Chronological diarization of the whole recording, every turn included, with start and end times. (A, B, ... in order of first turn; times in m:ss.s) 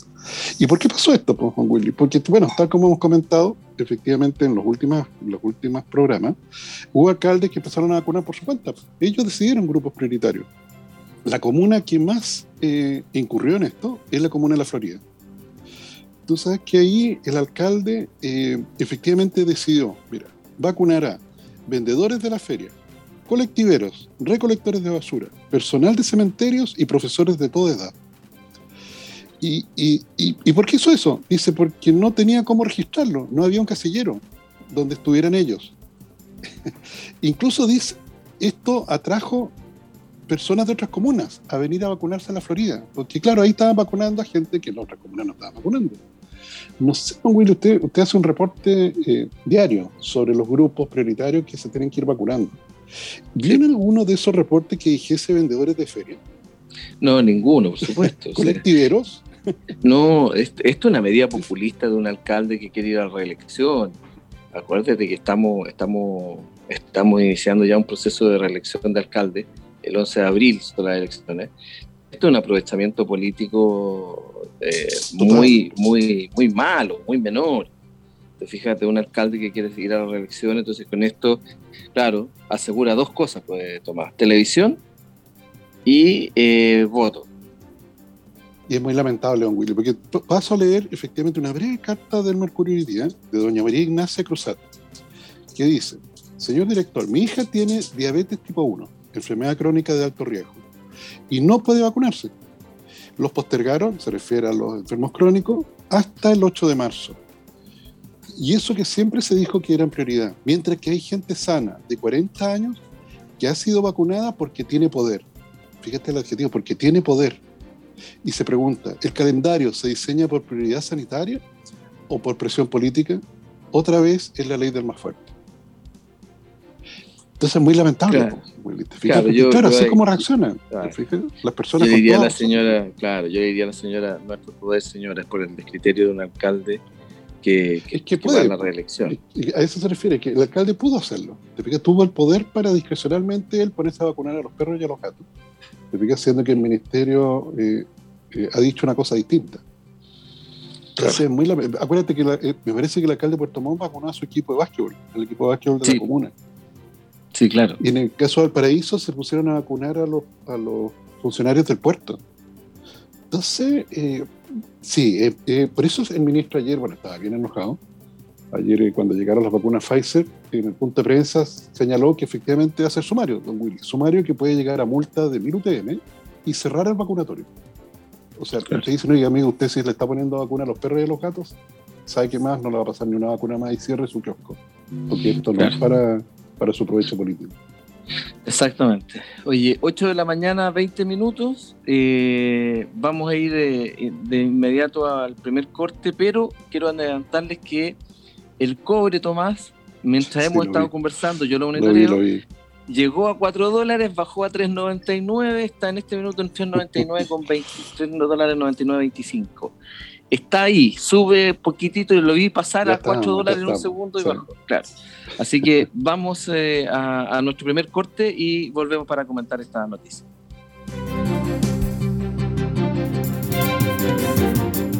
0:00.6-0:06.4 A
0:06.9-0:10.5 A
0:11.2-0:15.0 A
0:16.3-0:22.7 A
0:23.3-0:27.9 A
0:29.4-0:35.7 A
0:37.2-0:39.5 A
0:40.3-0:46.0 A
0:46.8-0:52.6 A
0:53.3-0:56.2 A
0:57.0-0:58.6 B
0:58.3-0:59.3 A
0:59.8-1:04.0 B
1:04.5-1:11.5 B
1:12.1-1:17.7 B
1:15.2-1:15.6 A
1:18.4-1:21.4 B
1:21.9-1:24.8 B
1:25.8-1:27.2 B
1:28.7-1:34.6 A
1:35.5-1:40.6 A
1:41.3-1:42.3 A
1:43.2-1:47.2 A
1:48.4-1:52.8 A
1:53.4-1:55.2 A
1:55.8-1:57.4 A
1:58.2-2:01.4 A
2:02.1-2:03.2 A
2:03.7-2:05.3 A
2:07.4-2:12.7 A
2:08.1-2:08.4 B
2:09.0-2:10.9 B
2:11.8-2:16.8 B
2:17.4-2:19.2 B
2:17.9-2:25.2 A
2:25.9-2:29.6 A
2:31.0-2:36.3 A
2:37.3-2:37.8 B
2:37.8-2:42.2 A
2:43.3-2:44.3 A
2:44.8-2:47.8 A
2:48.5-2:57.5 A
2:58.4-3:04.6 A
3:05.1-3:07.5 A
3:08.4-3:18.0 B
3:18.6-3:22.2 B
3:20.2-3:20.9 A
3:21.8-3:22.4 A
3:22.9-3:29.7 B
3:26.8-3:27.1 A
3:30.3-3:40.2 B
3:32.8-3:34.4 A